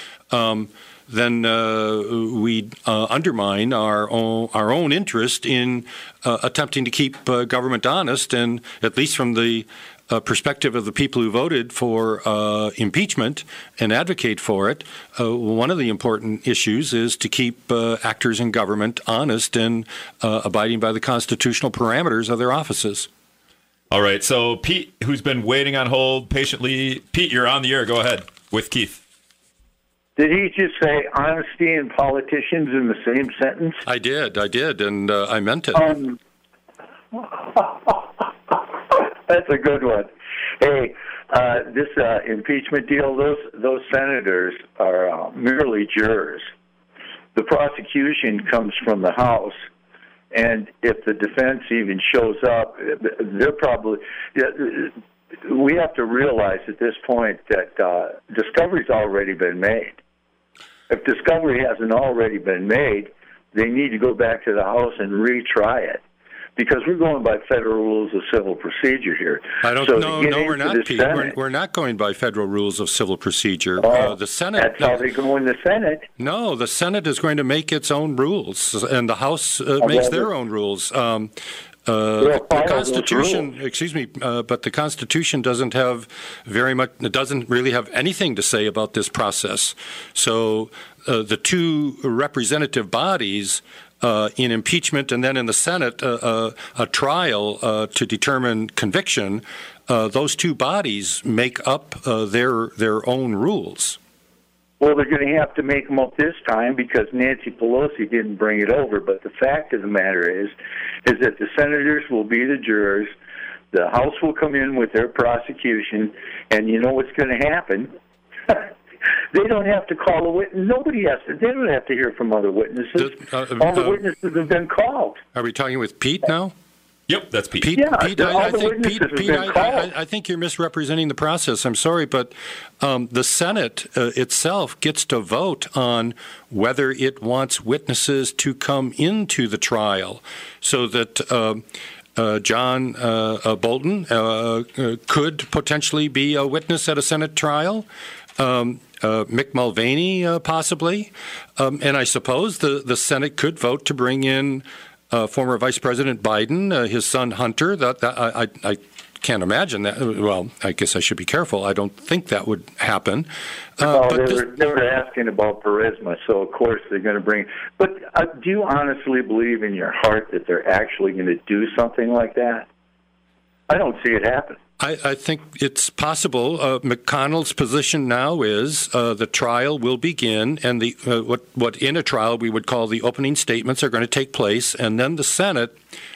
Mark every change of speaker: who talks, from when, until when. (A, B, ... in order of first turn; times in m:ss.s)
0:00.3-0:23.1 A
0:23.9-0:29.0 B
0:30.2-0:33.8 C
0:33.8-0:36.0 A
0:35.8-0:36.2 C
0:37.1-0:46.5 C
0:47.4-0:49.6 C
0:50.3-0:59.9 C
1:00.9-1:06.0 C
1:06.6-1:11.4 C
1:09.6-1:15.0 A
1:13.8-1:16.1 C
1:16.2-1:21.3 A
1:19.8-1:20.3 C
1:21.9-1:44.0 A
1:22.2-1:23.5 C
1:44.8-1:53.1 C
1:53.7-1:58.0 C
1:59.3-2:05.2 C
2:03.0-2:04.1 A
2:05.3-2:06.5 A
2:07.1-2:07.8 B
2:07.6-2:21.6 A
2:07.7-2:09.9 C
2:22.2-2:44.5 A
2:43.8-2:52.7 C
2:53.7-2:54.6 C
2:54.8-3:05.8 A